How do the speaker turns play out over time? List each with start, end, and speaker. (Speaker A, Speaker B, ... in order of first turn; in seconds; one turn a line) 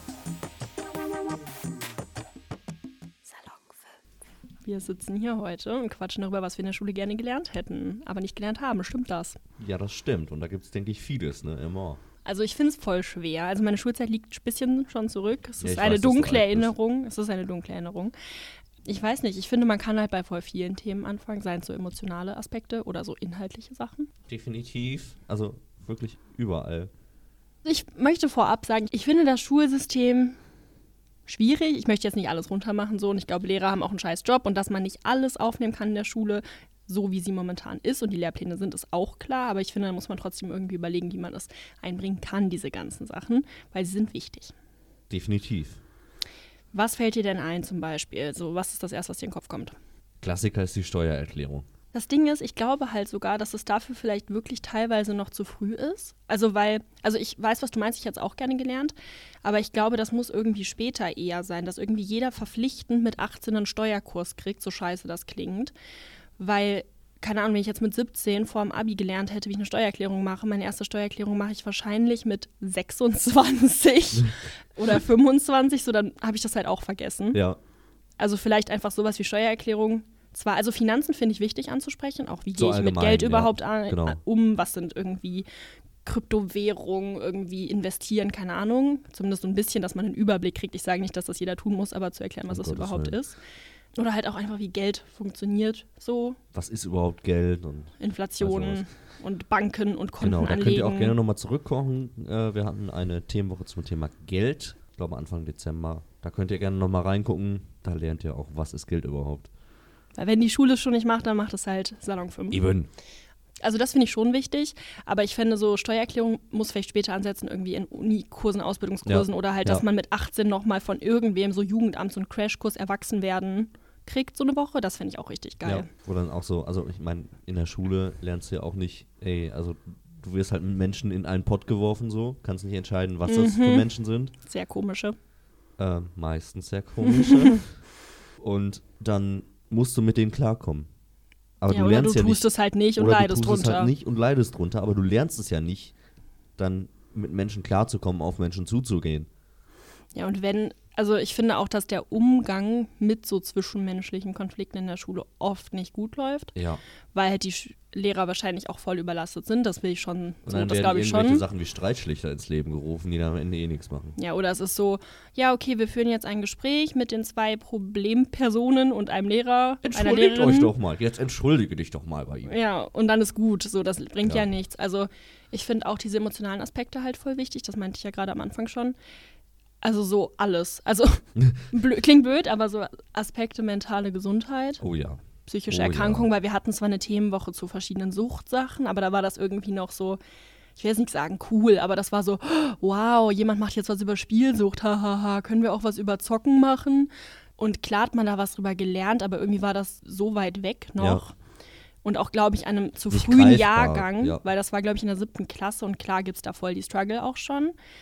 Speaker A: 4.6-9.4
Speaker B: 9.6-12.0
Speaker A: 12.2-18.1
Speaker B: 15.6-16.7
Speaker A: 18.8-24.1
Speaker B: 24.3-26.9
Speaker A: 27.6-30.4
Speaker A: 31.2-44.5
Speaker B: 45.1-45.8
Speaker A: 46.7-49.7
Speaker B: 50.2-51.6
Speaker A: 51.9-58.9
Speaker A: 59.4-65.7
Speaker A: 66.4-77.4
Speaker B: 77.3-77.6
Speaker A: 78.2-85.5
Speaker B: 82.5-84.2
Speaker A: 86.0-93.4
Speaker B: 92.5-93.2
Speaker A: 94.0-96.4
Speaker B: 96.5-98.8
Speaker A: 98.0-101.2
Speaker B: 100.2-109.5
Speaker A: 110.1-112.6
Speaker B: 112.5-112.9
Speaker A: 113.6-125.9
Speaker B: 119.0-119.8
Speaker B: 125.6-134.3
Speaker A: 133.2-133.9
Speaker A: 134.4-135.2
Speaker B: 135.8-137.8
Speaker A: 137.0-137.6
Speaker B: 138.4-140.9
Speaker B: 141.6-145.9
Speaker A: 141.7-143.9
Speaker B: 146.6-149.3
Speaker A: 150.1-156.5
Speaker B: 156.5-156.8
Speaker A: 157.1-161.4
Speaker B: 160.4-164.2
Speaker A: 164.2-170.7
Speaker B: 169.8-172.5
Speaker A: 172.4-178.9
Speaker A: 179.8-184.8
Speaker B: 181.4-181.6
Speaker B: 184.8-186.3
Speaker A: 185.4-190.2
Speaker A: 190.8-201.3
Speaker A: 202.0-207.7
Speaker B: 203.1-204.4